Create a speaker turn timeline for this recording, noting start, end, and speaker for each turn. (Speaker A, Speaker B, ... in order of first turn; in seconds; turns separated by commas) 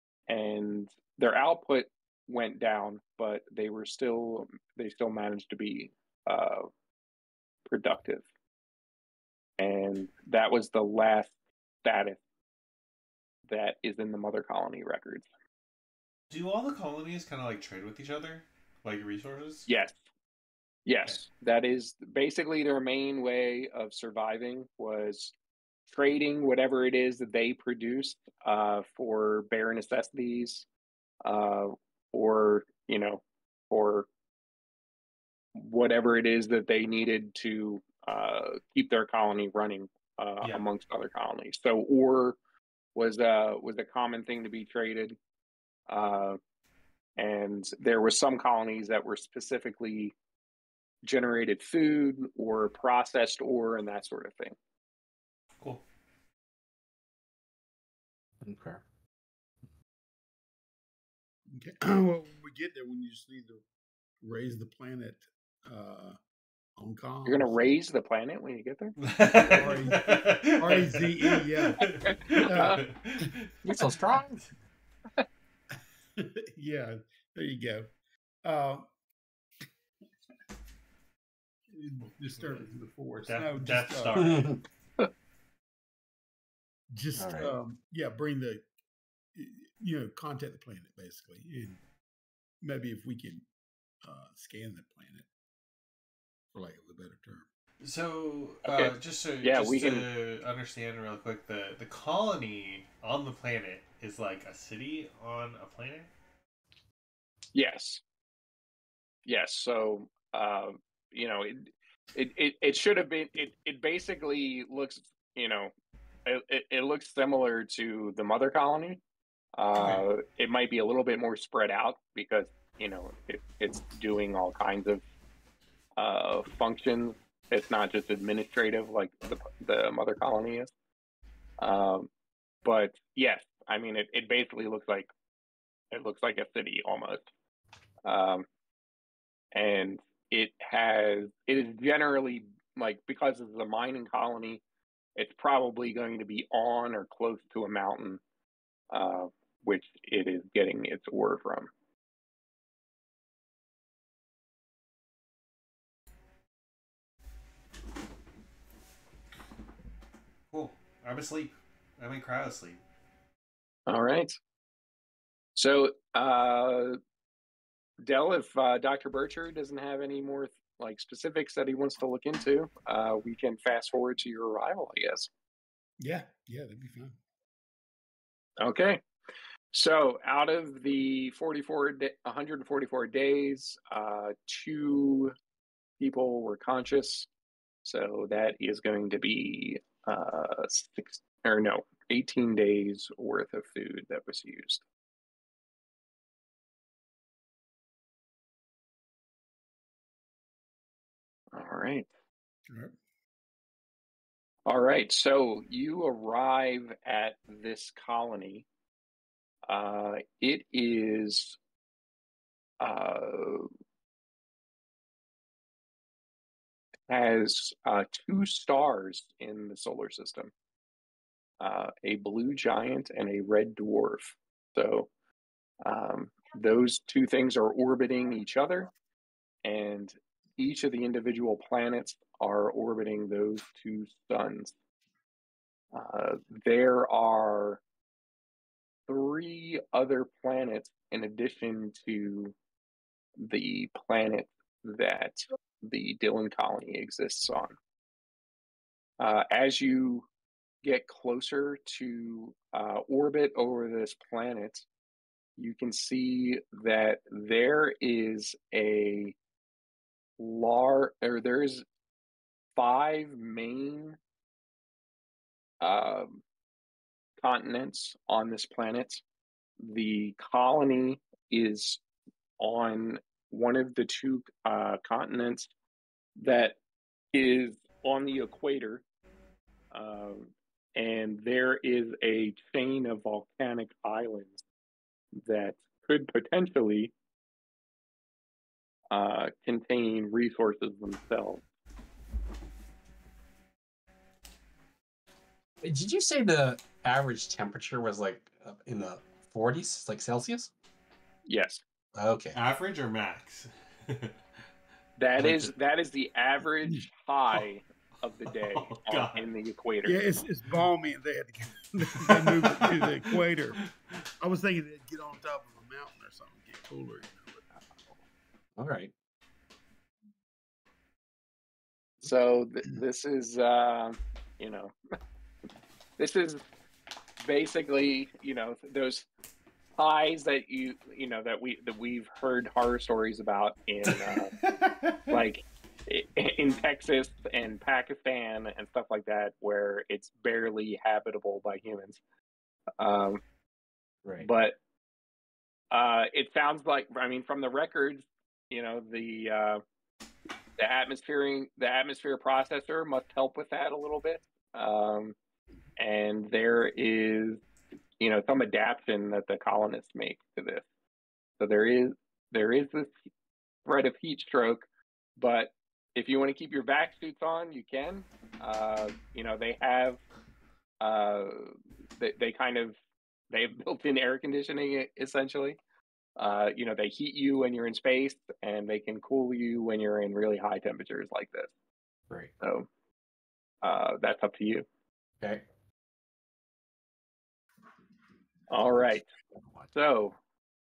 Speaker A: 0.3-6.7, Speaker A: 7.7-8.2, Speaker A: 9.6-11.3, Speaker A: 11.8-12.2, Speaker A: 13.5-15.3, Speaker B: 16.3-19.7, Speaker A: 19.7-20.0, Speaker A: 20.9-25.3, Speaker A: 25.9-30.6, Speaker A: 31.2-34.1, Speaker A: 35.5-42.4, Speaker A: 43.0-45.2, Speaker A: 45.9-46.4, Speaker A: 47.2-50.1, Speaker A: 51.0-54.6, Speaker C: 58.4-58.8, Speaker D: 61.5-63.6, Speaker D: 64.2-66.2, Speaker D: 66.8-67.7, Speaker A: 67.3-69.0, Speaker B: 69.0-73.6, Speaker D: 69.3-72.9, Speaker A: 71.8-72.8, Speaker C: 73.6-74.5, Speaker D: 76.2-77.9, Speaker D: 78.4-78.9, Speaker D: 81.7-84.3, Speaker B: 82.4-82.7, Speaker B: 83.2-84.6, Speaker C: 84.2-84.6, Speaker D: 86.9-88.6, Speaker C: 87.2-87.5, Speaker D: 89.3-91.8, Speaker D: 92.6-93.5, Speaker D: 94.0-95.3, Speaker D: 96.5-97.5, Speaker B: 97.8-106.1, Speaker A: 98.7-100.1, Speaker A: 107.5-108.0, Speaker A: 109.2-115.7, Speaker A: 116.3-119.0, Speaker A: 119.6-125.0, Speaker B: 119.7-120.0, Speaker A: 126.0-130.7, Speaker A: 131.6-132.1, Speaker A: 132.6-135.1, Speaker A: 135.9-137.2, Speaker A: 138.1-138.5, Speaker A: 139.5-144.6, Speaker A: 145.2-148.2, Speaker A: 148.9-151.7, Speaker B: 160.5-162.8, Speaker A: 163.9-164.4, Speaker A: 165.6-167.0, Speaker A: 168.0-175.3, Speaker D: 176.0-177.2, Speaker A: 178.6-179.0, Speaker A: 179.7-185.3, Speaker A: 186.0-187.3, Speaker A: 187.8-194.8, Speaker A: 201.5-202.1, Speaker D: 202.7-202.9, Speaker A: 204.7-208.7, Speaker A: 209.7-211.6, Speaker A: 212.8-213.7, Speaker A: 217.1-220.5, Speaker A: 221.6-225.1, Speaker A: 225.8-228.9, Speaker A: 229.6-234.7, Speaker A: 235.9-237.8, Speaker A: 239.1-242.6, Speaker A: 243.4-247.8, Speaker A: 249.2-250.3, Speaker A: 250.8-254.9, Speaker A: 255.6-259.4, Speaker A: 260.4-261.9, Speaker A: 262.8-264.2, Speaker A: 265.8-266.4, Speaker A: 267.4-269.2, Speaker A: 269.8-272.0, Speaker A: 272.6-275.7, Speaker A: 276.4-276.8, Speaker A: 277.3-279.0, Speaker A: 279.9-284.6, Speaker A: 285.4-287.1, Speaker A: 289.1-291.6, Speaker C: 295.8-300.7, Speaker A: 301.5-301.8, Speaker C: 302.1-302.6, Speaker B: 302.5-304.4, Speaker A: 305.2-310.2, Speaker B: 305.4-305.7, Speaker B: 308.5-309.5, Speaker D: 310.1-313.8, Speaker B: 312.1-314.2, Speaker D: 314.4-317.7, Speaker C: 318.8-319.1, Speaker A: 322.2-324.9, Speaker A: 326.2-326.6, Speaker A: 327.4-329.3, Speaker A: 330.0-334.6, Speaker B: 334.3-335.3, Speaker A: 335.3-342.2, Speaker A: 343.0-343.4, Speaker A: 344.4-344.8, Speaker A: 345.9-349.8, Speaker A: 350.8-355.4, Speaker A: 356.0-357.6, Speaker A: 358.2-360.9, Speaker A: 361.6-363.1, Speaker A: 363.9-364.9, Speaker A: 365.4-370.2, Speaker A: 371.0-372.9, Speaker A: 373.5-375.8, Speaker A: 376.4-381.7, Speaker A: 382.6-382.9, Speaker A: 383.8-384.9, Speaker A: 388.7-389.3, Speaker C: 388.9-389.9, Speaker A: 389.9-390.4